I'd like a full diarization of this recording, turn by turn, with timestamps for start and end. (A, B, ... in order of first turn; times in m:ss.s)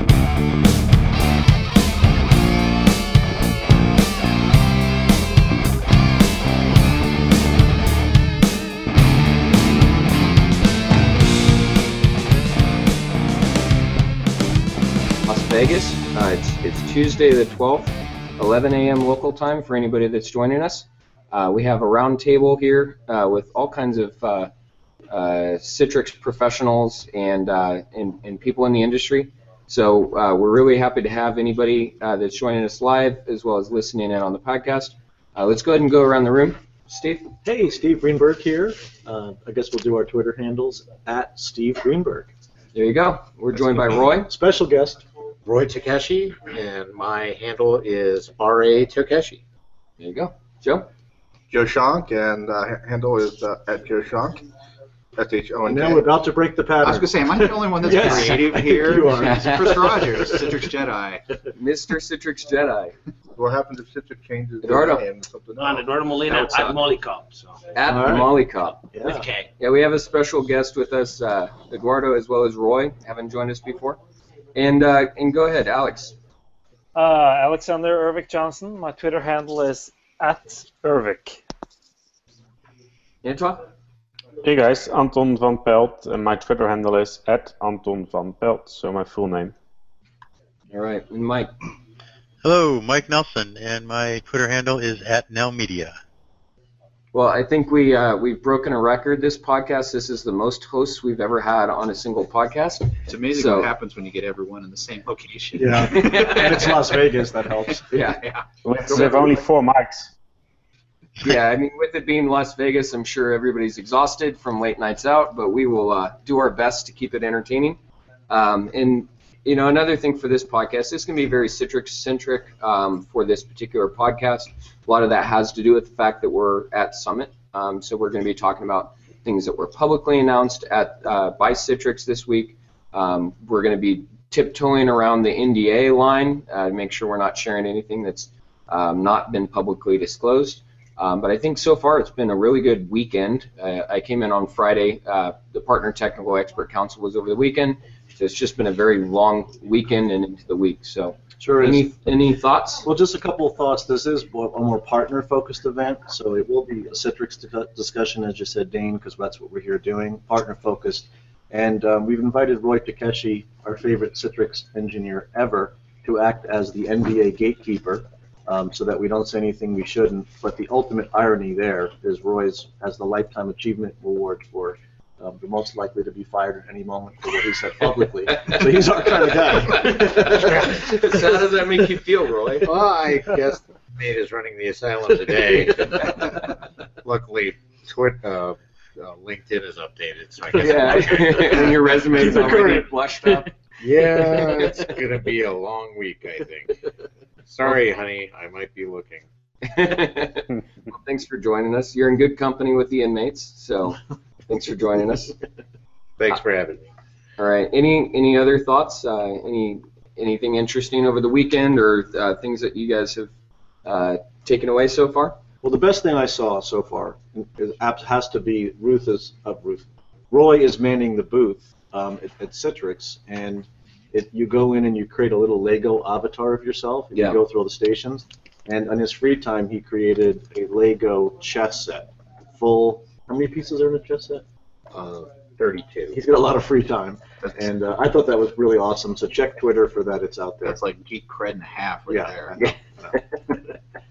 0:15.2-0:24.5 A
0:25.1-0:37.3 A
0:37.4-0:42.3 B
0:42.7-0:44.3 A
0:44.2-0:45.0 B
0:45.4-0:49.4 C
0:50.0-0:50.9 A
0:51.5-0:54.4 D
0:55.2-0:56.0 D
0:55.7-1:00.5 B
0:56.8-1:01.2 E
0:59.2-1:00.1 A
1:01.5-1:02.9 A
1:03.3-1:05.9 D
1:04.6-1:05.0 A
1:05.6-1:08.2 F
1:06.3-1:06.8 A
1:07.7-1:08.9 A
1:07.8-1:08.3 B
1:08.9-1:09.3 B
1:09.0-1:09.5 F
1:09.6-1:14.0 A
1:14.5-1:16.1 A
1:16.9-1:21.4 G
1:23.2-1:23.7 A
1:24.4-1:29.5 H
1:30.7-1:31.5 A
1:32.4-1:35.9 I
1:37.1-1:43.7 A
1:43.0-1:46.4 E
1:45.6-1:47.9 B
1:45.8-1:46.8 A
1:47.9-1:48.2 A
1:48.6-1:50.1 H
1:48.9-1:49.3 B
1:48.9-1:49.2 A
1:51.2-1:57.8 A
1:58.3-2:32.8 A
2:31.4-2:31.9 B
2:32.8-3:01.4 B
2:58.3-3:02.7 A
3:02.6-3:06.4 C
3:07.0-3:11.7 C
3:10.6-3:13.5 A
3:10.8-3:11.6 B
3:12.2-3:12.8 B
3:13.8-3:16.8 C
3:14.6-3:14.8 A
3:17.5-3:19.2 C
3:19.6-3:25.3 A
3:26.2-3:26.8 C
3:27.4-3:33.3 A
3:33.8-3:35.4 A
3:35.6-3:54.4 B
3:47.1-3:47.4 A
3:54.9-3:56.2 C
3:56.1-4:00.8 B
4:00.6-4:02.7 E
4:02.1-4:02.7 B